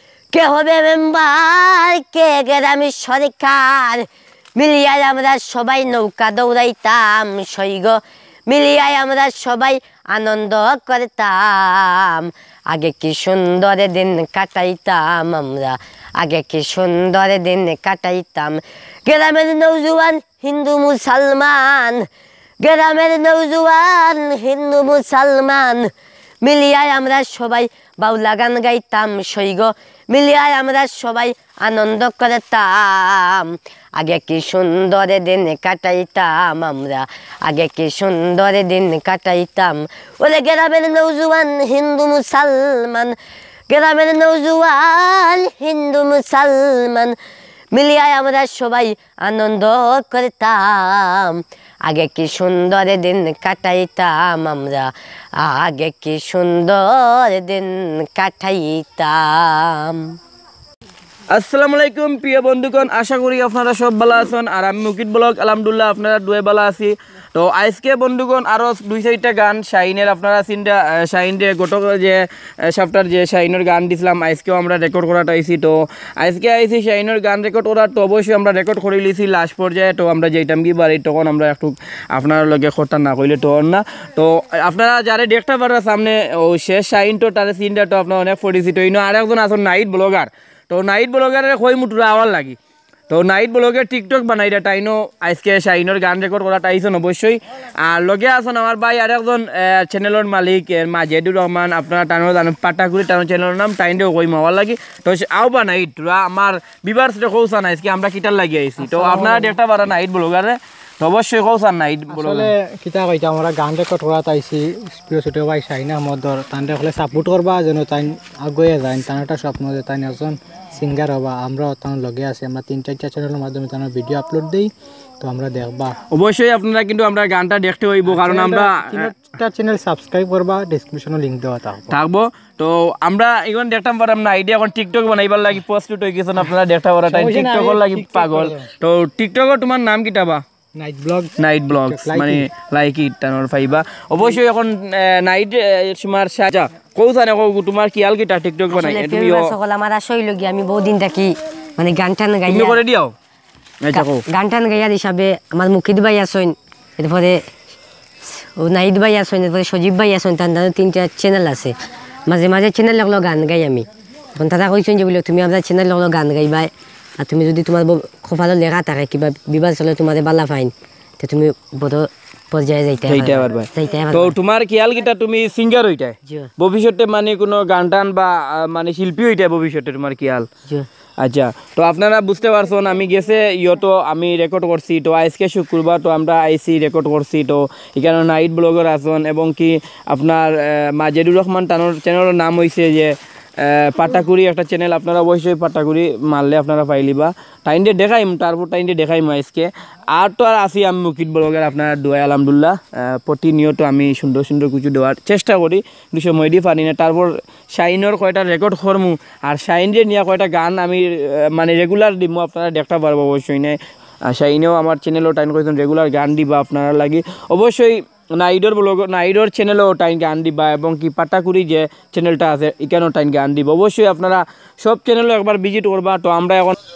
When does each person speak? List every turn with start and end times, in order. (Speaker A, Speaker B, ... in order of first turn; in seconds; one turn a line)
Speaker A: 0.3-22.1
Speaker A: 22.6-25.9
Speaker A: 26.4-43.2
Speaker A: 43.7-47.2
Speaker A: 47.7-60.1
Speaker B: 61.3-92.6
Speaker B: 93.1-112.5
Speaker C: 108.8-109.5
Speaker C: 112.1-126.0
Speaker B: 126.1-129.1
Speaker C: 128.1-132.0
Speaker B: 131.9-140.4
Speaker C: 137.1-138.6
Speaker C: 140.8-142.5
Speaker B: 141.4-149.5
Speaker A: 148.7-152.8
Speaker B: 152.5-153.1
Speaker B: 153.8-154.2
Speaker A: 153.9-157.5
Speaker A: 158.4-161.8
Speaker A: 162.3-174.3
Speaker B: 173.1-180.5
Speaker B: 181.2-226.8